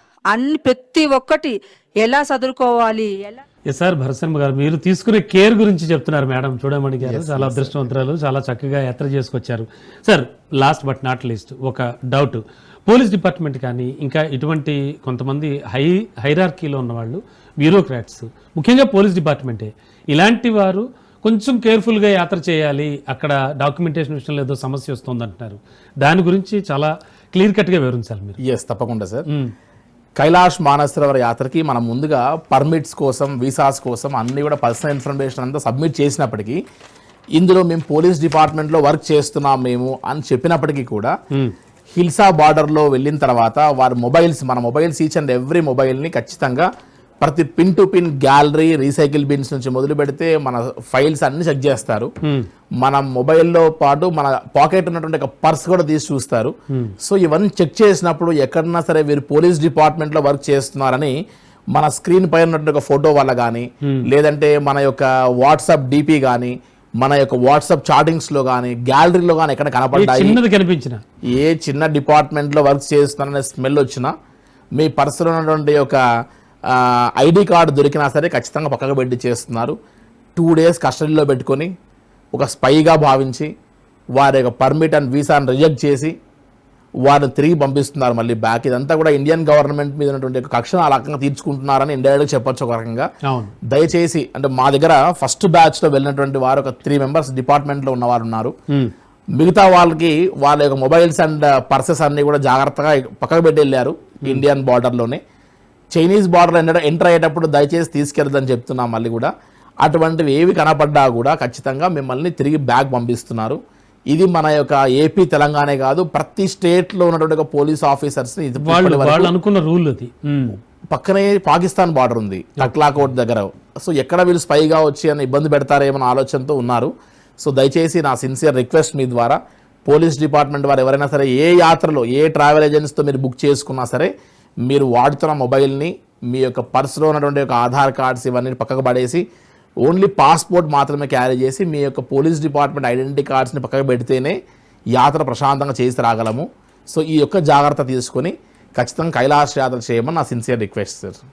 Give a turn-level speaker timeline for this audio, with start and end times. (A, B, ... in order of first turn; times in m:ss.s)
0:00.3-0:03.4 A
0:03.7-0:28.4 B
0:07.0-0:07.8 C
0:28.4-0:29.2 C
0:30.2-0:36.6 C
0:37.3-0:41.1 C
0:41.9-0:46.7 C
0:47.2-0:52.1 C
0:52.8-1:01.2 C
0:56.7-0:56.9 B
1:01.7-1:10.4 C
1:09.9-1:11.0 B
1:11.2-1:14.1 C
1:14.8-1:16.0 C
1:16.7-1:19.8 C
1:20.4-1:21.7 C
1:22.3-1:23.5 C
1:24.1-1:26.1 C
1:27.0-1:33.1 C
1:33.2-1:33.5 B
1:33.7-1:38.5 C
1:39.4-1:45.2 C
1:45.9-1:49.3 C
1:49.8-1:53.6 C
1:54.1-1:59.3 C
1:58.6-2:00.6 B
2:00.9-2:14.1 C
2:14.6-2:19.2 C
2:19.8-2:24.4 C
2:24.9-2:31.2 C